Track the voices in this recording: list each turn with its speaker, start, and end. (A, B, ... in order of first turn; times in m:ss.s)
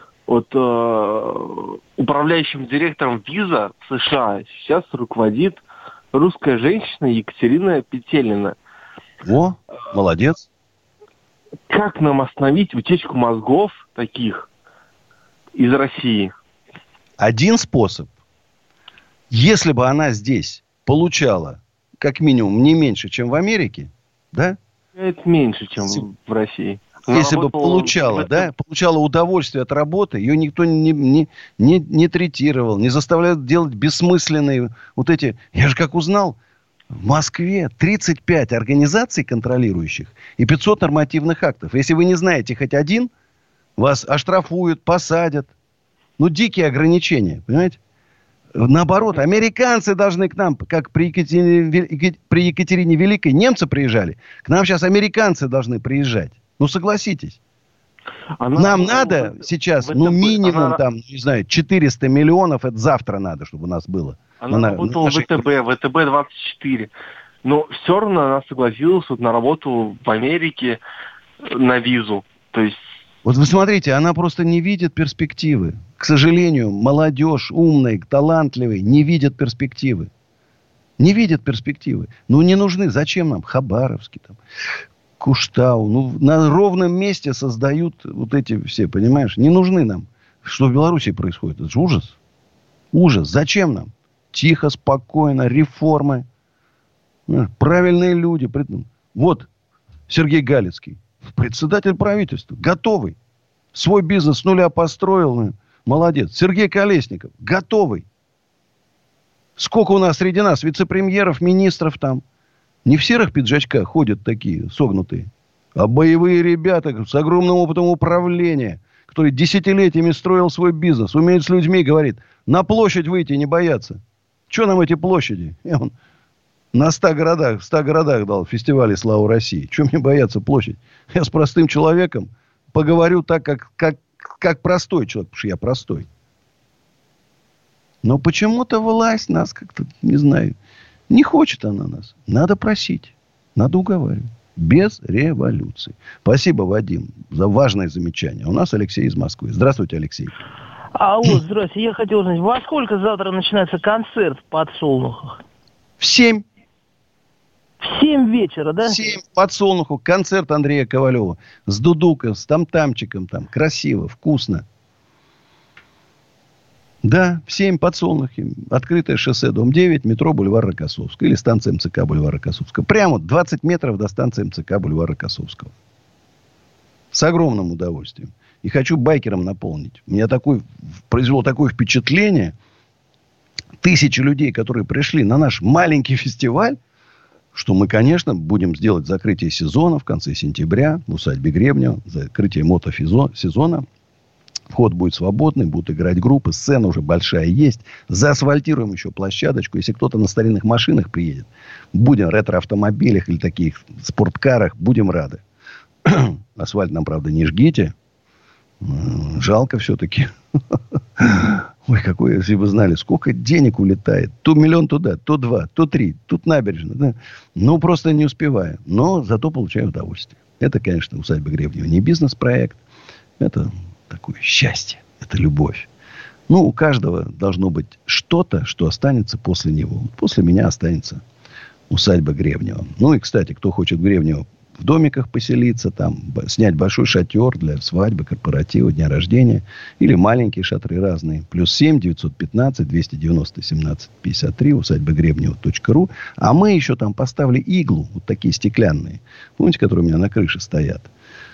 0:00.3-0:05.6 A
0:06.1-0:08.6 A
0:09.2-0:10.4 B
0:11.7-0:14.5 A
0:15.6-0:16.3 A
0:17.2-0:18.1 B
0:19.3-0:24.6 B
0:25.0-0:28.5 A
0:27.1-0:36.4 B
0:36.9-0:43.1 B
0:43.8-0:45.5 B
0:46.2-0:47.8 B
0:48.5-0:57.4 B
0:58.4-1:00.8 A
0:58.5-1:05.4 B
1:04.4-1:06.9 A
1:07.4-1:10.8 A
1:11.4-1:12.8 A
1:13.2-1:20.1 B
1:21.0-1:24.4 B
1:25.2-1:32.2 B
1:32.9-1:36.2 B
1:37.3-1:39.5 B
1:40.1-1:43.2 B
1:43.7-1:48.0 B
1:49.6-1:52.2 B
1:52.8-2:05.9 B
2:06.7-2:16.1 B
2:18.0-2:20.5 B
2:21.1-2:30.3 B
2:31.0-2:35.4 C
2:36.0-2:36.4 B
2:37.8-2:39.0 C
2:38.8-2:44.6 B
2:47.0-2:55.7 B
2:57.1-3:02.5 B
3:03.8-3:06.8 B
3:07.5-3:13.8 B
3:14.7-3:25.4 B
3:26.0-3:27.9 B
3:28.8-3:42.8 B
3:43.4-3:45.9 B
3:46.5-3:51.2 B
3:51.9-4:11.1 B